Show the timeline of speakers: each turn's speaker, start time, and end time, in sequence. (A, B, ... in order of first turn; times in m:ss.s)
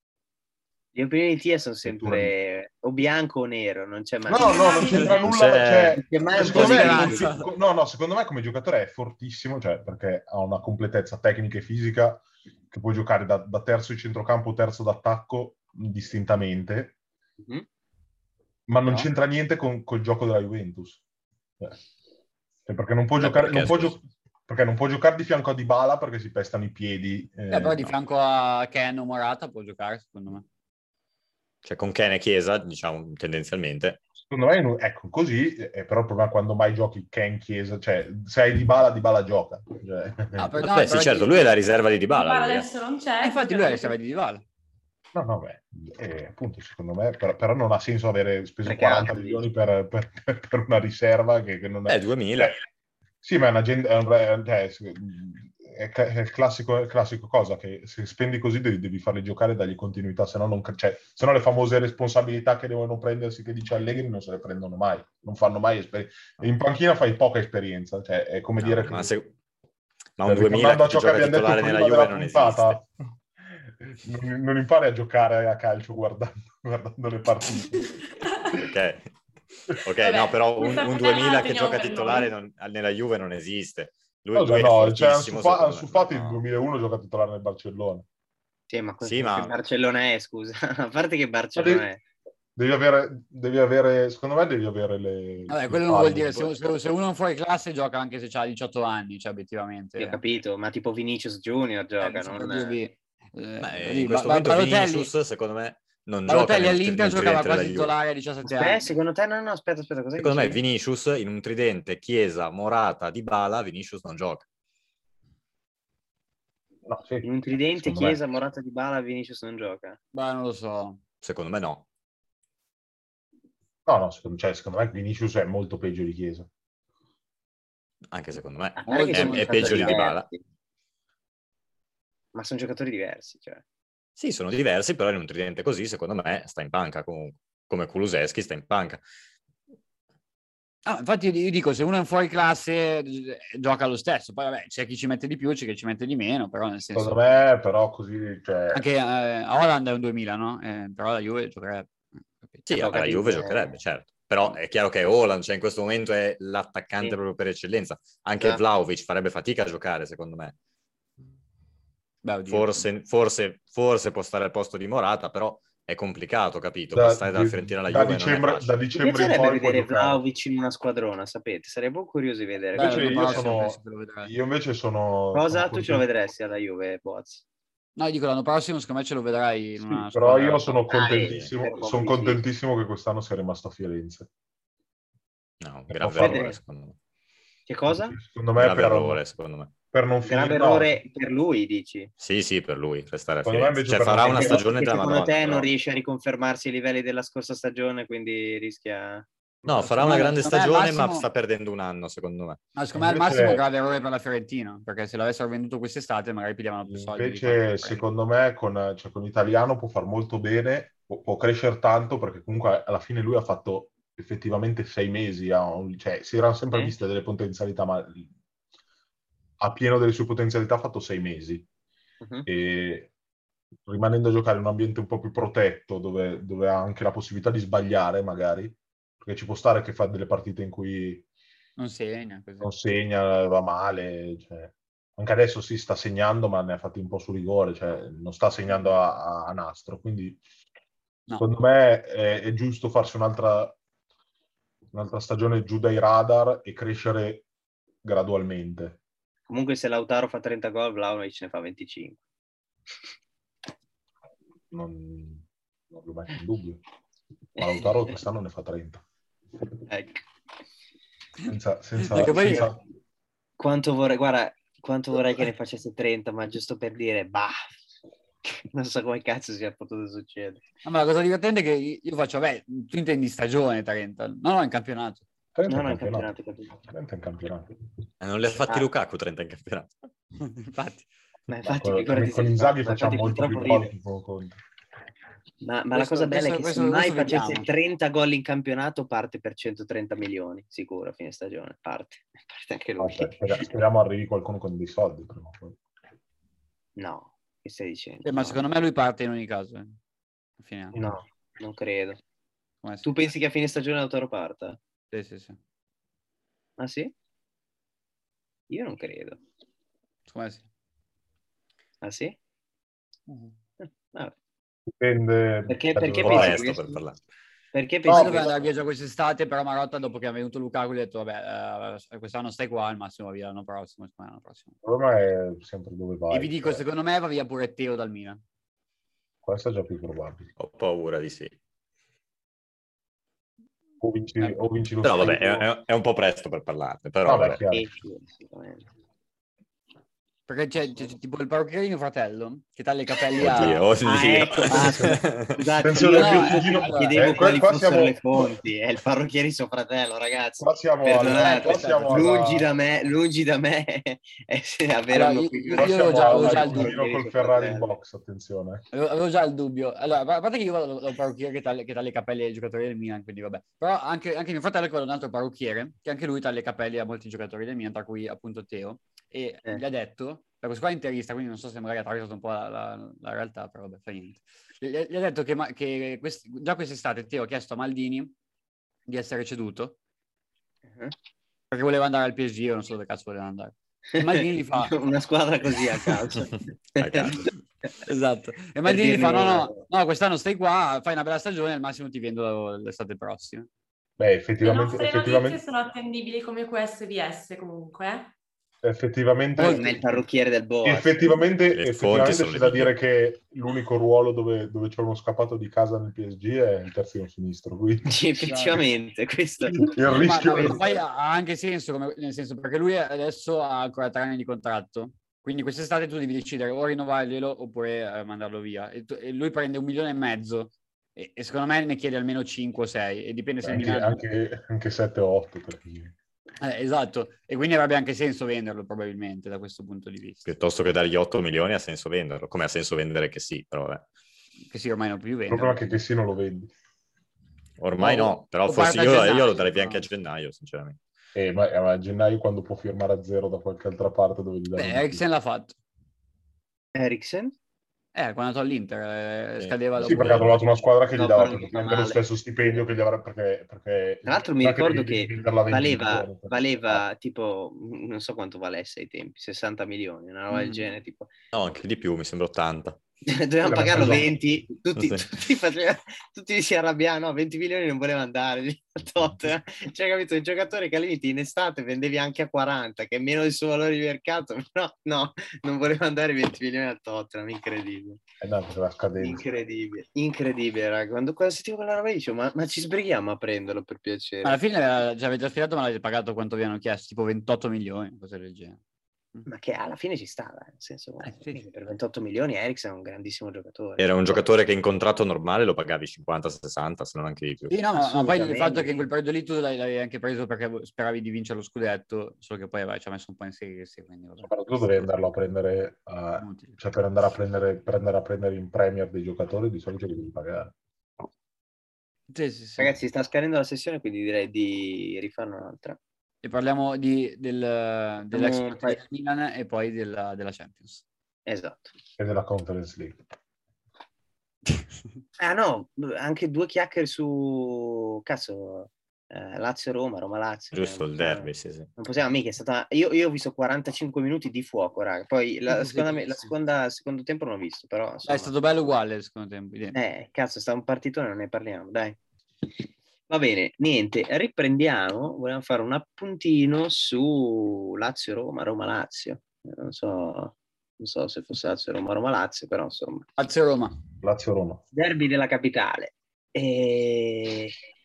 0:00.9-0:05.1 A
0:01.8-0:02.3 B
0:04.3-0:17.0 B
0:04.4-0:05.2 C
0:05.1-0:06.6 D
0:05.9-0:07.3 A
0:06.4-0:07.5 E
0:18.7-0:21.0 B
0:22.7-0:27.9 B
0:23.2-0:24.0 D
0:27.5-0:30.4 E
0:31.6-0:34.0 D
0:34.2-0:40.5 B
0:40.4-0:41.6 E
0:40.6-0:42.7 D
0:42.1-0:44.0 C
0:43.2-0:44.4 E
0:45.1-0:52.6 B
0:48.7-0:49.4 A
0:51.9-0:52.6 D
0:53.2-1:09.1 B
1:08.6-1:09.3 D
1:10.2-1:12.8 D
1:10.2-1:12.9 B
1:13.4-1:17.9 B
1:18.2-1:18.6 C
1:18.6-1:19.0 D
1:19.8-1:26.4 D
1:20.0-1:22.3 C
1:24.4-1:28.0 B
1:28.7-1:32.0 A
1:29.0-1:29.6 D
1:31.6-1:31.9 B
1:32.6-1:36.5 B
1:35.5-1:40.2 E
1:40.0-1:42.8 A
1:42.0-1:45.1 E
1:43.6-1:47.9 D
1:46.3-1:48.9 E
1:48.4-1:50.6 A
1:50.2-1:54.4 D
1:56.9-1:58.2 B
1:57.2-2:00.0 A
2:00.1-2:01.0 E
2:01.2-2:01.8 D
2:03.9-2:06.5 B
2:08.1-2:10.3 D
2:08.8-2:10.4 A
2:08.9-2:10.0 E
2:12.3-2:13.6 A
2:14.2-2:19.0 D
2:20.9-2:27.2 E
2:26.9-2:28.8 B
2:28.7-2:31.9 E
2:32.7-2:40.6 D
2:32.8-2:33.8 A
2:42.2-2:42.9 E
2:42.5-2:48.8 D
2:46.9-2:50.2 B
2:49.0-2:53.5 A
2:52.8-2:54.3 E
2:52.8-2:56.0 B
2:55.3-2:57.4 A
2:58.0-3:00.8 E
2:59.8-3:04.3 B
3:00.9-3:02.4 A
3:05.6-3:07.0 D
3:05.9-3:06.5 B
3:06.2-3:06.6 A
3:07.7-3:08.2 A
3:07.9-3:09.2 B
3:08.6-3:09.7 D
3:09.9-3:11.0 B
3:10.2-3:12.1 A
3:12.2-3:15.7 D
3:13.4-3:14.6 B
3:14.3-3:19.3 A
3:19.6-3:22.6 D
3:19.8-3:21.3 E
3:22.8-3:28.0 E
3:23.0-3:23.6 B
3:26.9-3:38.3 B
3:39.6-3:41.7 B
3:42.2-3:42.5 A
3:42.5-3:43.1 B
3:43.9-3:51.2 B
3:51.8-3:52.7 E
3:52.6-4:00.4 B
4:01.4-4:03.8 B
4:04.9-4:07.5 B
4:08.0-4:09.0 B
4:09.5-4:12.2 A
4:14.7-4:16.8 B
4:17.6-4:19.0 B
4:17.6-4:18.1 A
4:19.9-4:20.2 A
4:21.4-4:22.8 B
4:22.0-4:22.7 E
4:23.6-4:27.6 A
4:28.4-4:30.6 A
4:30.8-4:35.2 E
4:35.6-4:37.7 B
4:35.7-4:36.7 A
4:38.2-4:39.9 D
4:40.4-4:41.1 E
4:41.5-4:43.9 A
4:41.6-4:44.6 B
4:45.6-4:53.6 A
4:45.9-4:47.7 E
4:53.0-4:55.8 B
4:57.0-4:58.6 A
4:58.2-5:00.0 E
5:00.6-5:01.0 E
5:00.9-5:02.2 A
5:02.8-5:03.1 E
5:03.0-5:04.8 A
5:05.1-5:05.6 E
5:06.8-5:07.1 A
5:08.7-5:09.4 A
5:10.3-5:10.6 E
5:12.0-5:12.4 A
5:13.3-5:13.5 E
5:13.8-5:14.3 A
5:14.9-5:16.6 B
5:15.7-5:17.0 A
5:16.2-5:17.2 D
5:17.7-5:18.7 A
5:18.0-5:18.5 B
5:18.1-5:24.7 E
5:24.8-5:26.8 B
5:26.3-5:28.4 E
5:29.4-5:30.5 B
5:30.6-5:31.5 D
5:34.0-5:35.7 B
5:35.0-5:37.6 D
5:37.2-5:37.9 B
5:37.7-5:38.9 A
5:40.5-5:43.8 E
5:43.4-5:45.6 D
5:43.6-5:57.9 A
5:44.7-5:45.2 B
5:45.8-5:48.5 B
5:46.1-5:47.3 E
5:50.6-5:52.7 B
5:51.2-5:52.4 E
5:55.1-5:57.0 E
5:55.8-5:58.8 B
5:58.9-6:18.3 E
6:19.1-6:20.0 E
6:21.7-6:25.0 E
6:24.2-6:27.5 A
6:27.0-6:27.5 D
6:28.0-6:33.7 E
6:28.8-6:29.8 A
6:34.2-6:35.6 B
6:34.6-6:38.3 C
6:38.8-6:40.0 B
6:39.6-6:39.8 E
6:39.6-6:41.3 A
6:40.8-6:48.2 B
6:41.7-6:42.9 D
6:48.1-6:49.9 A
6:48.4-6:48.8 E
6:49.7-6:50.8 B
6:50.1-7:04.2 E
7:03.6-7:06.1 B
7:06.6-7:10.5 E
7:10.4-7:14.0 D
7:14.7-7:16.0 E
7:15.5-7:16.7 B
7:17.8-7:21.0 D
7:18.0-7:20.1 E
7:21.4-7:25.2 B
7:24.8-7:25.8 E
7:26.9-7:27.5 A
7:28.2-7:30.7 E
7:29.6-7:30.5 D
7:30.0-7:37.0 B
7:31.2-7:32.2 A
7:34.3-7:41.3 A
7:40.5-7:40.9 E
7:41.5-7:43.0 D
7:43.3-7:58.2 A
7:43.6-7:44.4 B
7:45.0-7:45.2 D
7:58.4-7:59.4 B
7:59.2-8:04.6 A
8:04.4-8:08.8 E
8:09.5-8:14.4 A
8:11.3-8:11.6 E
8:14.0-8:17.8 D
8:17.7-8:25.1 E
8:18.0-8:18.9 A
8:24.4-8:30.7 B
8:26.4-8:26.8 E
8:32.3-8:33.0 E
8:32.8-8:36.0 A
8:36.4-8:41.0 E
8:38.3-8:39.0 A
8:41.5-8:41.9 A
8:42.2-8:43.2 B
8:45.4-8:58.5 A
8:50.7-8:51.9 D
8:55.7-8:56.5 E
8:58.2-9:00.0 E
9:00.0-9:02.2 A
9:03.3-9:13.3 A
9:13.4-9:13.9 E
9:14.2-9:14.8 B
9:14.9-9:17.8 A